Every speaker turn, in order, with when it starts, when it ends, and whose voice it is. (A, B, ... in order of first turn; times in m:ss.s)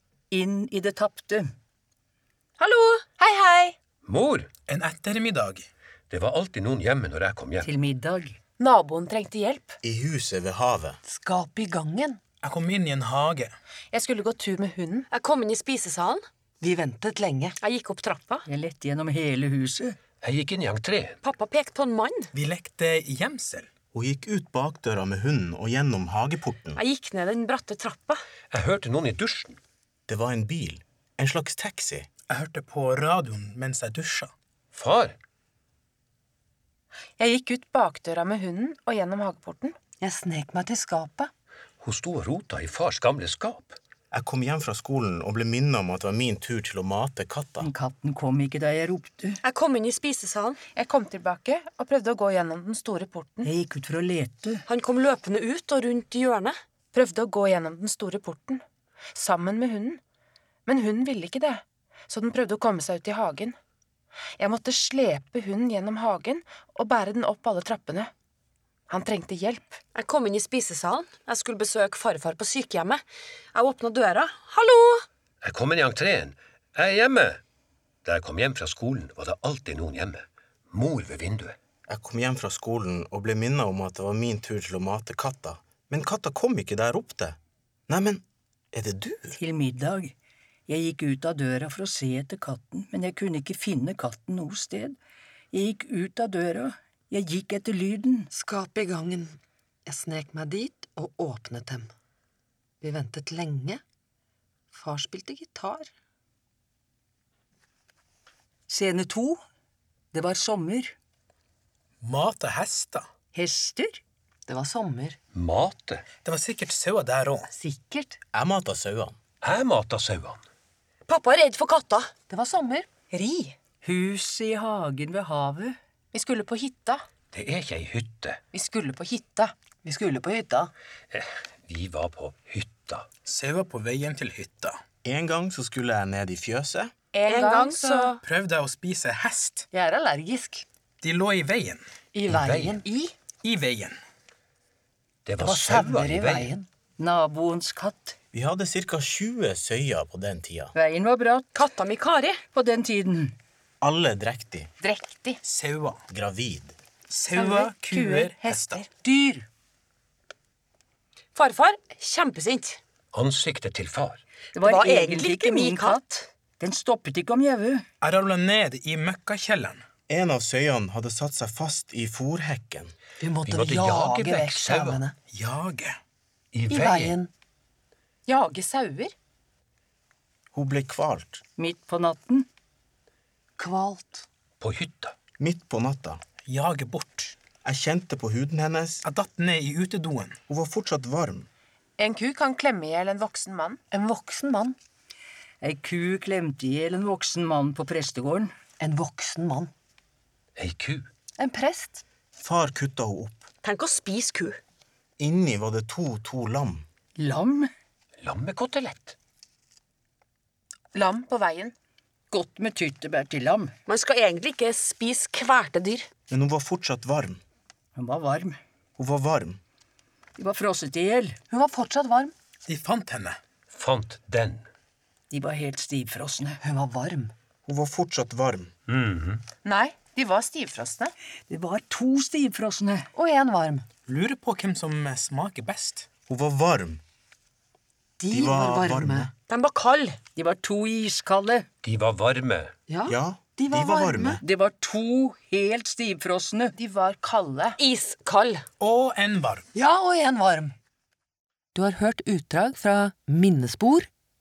0:00.3-0:01.5 A
0:02.6-0:03.1 B
0:03.2-0:03.8 C
0:04.0-0:04.5 D
0:04.7-0:05.7 E
0:06.1-0:07.7 D
0:07.6-0:08.4 A
0:08.6-0:09.8 C
0:09.8-0:11.0 F
0:11.0-0:12.2 G
0:12.4-0:13.5 E
0:13.9-0:15.0 C
0:15.1-0:16.2 B
0:16.6-0:17.6 G
0:17.6-0:18.4 B
0:18.5-0:20.0 A
0:20.2-0:21.2 D
0:21.2-0:22.3 B
0:22.3-0:23.7 E
0:23.9-0:26.8 F
0:26.8-0:28.2 B
0:28.5-0:29.6 D
0:30.1-0:32.1 F
0:32.3-0:34.3 E
0:34.7-0:35.2 D
0:37.2-0:39.8 C
0:40.0-0:41.3 G
0:41.8-0:43.8 D
0:44.1-0:47.7 F
0:47.6-0:49.4 A
0:49.4-0:50.6 B
0:50.7-0:53.5 C
0:53.4-0:54.6 A
0:54.7-0:56.6 B
0:56.9-0:58.6 C
0:59.2-1:00.0 C
1:00.7-1:03.6 C
1:04.4-1:08.1 C
1:08.9-1:09.8 C
1:09.9-1:13.0 B
1:13.5-1:15.0 B
1:15.4-1:17.4 D
1:18.0-1:21.6 D
1:21.9-1:27.4 F
1:27.9-1:29.4 F
1:29.4-1:30.1 A
1:30.7-1:35.0 A
1:35.5-1:38.3 A
1:38.3-1:41.9 G
1:42.8-1:43.8 G
1:44.7-1:45.9 G
1:48.7-1:49.4 A
1:50.1-1:51.0 A
1:52.0-1:53.1 E
1:53.3-1:54.0 A
1:54.5-1:55.2 G
1:55.3-1:56.1 D
1:56.2-1:57.5 E
1:57.6-1:58.2 G
1:58.3-1:59.2 F
1:59.4-2:00.4 D
2:01.1-2:02.1 B
2:02.3-2:02.9 G
2:03.1-2:03.6 B
2:03.8-2:05.8 A
2:06.1-2:07.0 C
2:07.3-2:08.4 D
2:08.5-2:09.5 C
2:09.8-2:10.7 G
2:11.1-2:13.1 D
2:13.2-2:14.8 E
2:15.0-2:16.9 F
2:17.1-2:17.8 C
2:17.2-2:18.2 B
2:18.2-2:19.7 E
2:19.7-2:20.6 G
2:21.0-2:21.8 E
2:22.1-2:23.1 G
2:22.3-2:22.8 D
2:23.4-2:24.0 E
2:25.3-2:26.5 D
2:25.4-2:26.7 G
2:27.0-2:28.2 A
2:28.3-2:30.7 F
2:30.7-2:31.6 A
2:31.6-2:32.4 B
2:32.5-2:33.3 A
2:33.8-2:34.7 F
2:34.8-2:35.4 C
2:35.4-2:36.0 E
2:36.1-2:36.8 F
2:37.1-2:38.9 E
2:37.4-2:38.1 C
2:39.0-2:39.4 A
2:41.4-2:42.8 B
2:43.1-2:44.2 D
2:44.6-2:47.8 A
2:44.6-2:46.0 B
2:48.0-2:49.8 E
2:50.1-2:52.9 F
2:53.2-2:55.2 G
2:53.4-2:55.0 D
2:55.3-2:56.0 E
2:56.5-2:57.2 D
2:56.7-2:57.3 G
2:58.3-2:59.1 C
3:00.5-3:01.4 F
3:01.6-3:02.5 A
3:03.6-3:04.3 G
3:04.6-3:05.2 D
3:05.4-3:06.2 F
3:06.5-3:07.4 E
3:07.6-3:09.0 F
3:09.0-3:10.4 E
3:10.5-3:11.5 F
3:12.0-3:13.8 C
3:13.8-3:14.8 G
3:15.6-3:18.5 A
3:18.8-3:19.7 G
3:20.6-3:21.1 D
3:21.4-3:22.0 G
3:22.4-3:23.4 F
3:23.6-3:24.6 B
3:25.2-3:26.8 F
3:27.2-3:27.7 A
3:28.2-3:29.2 D
3:30.9-3:31.7 C
3:32.3-3:33.7 A
3:33.9-3:36.1 B
3:36.3-3:37.4 F
3:38.0-3:38.6 A
3:39.0-3:39.6 F
3:40.4-3:41.4 A
3:41.5-3:42.3 G
3:42.7-3:43.4 E
3:43.7-3:44.7 D
3:45.3-3:46.6 A
3:46.6-3:47.3 G
3:47.7-3:48.7 F
3:48.9-3:49.4 D
3:49.6-3:51.1 C
3:51.5-3:53.1 A
3:53.1-3:53.9 G
3:54.1-3:56.1 E
3:56.3-3:57.0 F
3:58.2-3:59.3 G
3:58.3-3:59.3 F
3:59.5-4:00.2 B
4:00.4-4:01.7 A
4:01.8-4:02.7 D
4:02.9-4:04.4 G
4:03.1-4:04.4 F
4:04.4-4:06.8 A
4:06.8-4:07.8 C
4:07.8-4:08.6 B
4:08.8-4:09.6 E
4:09.8-4:10.8 G
4:11.8-4:14.1 G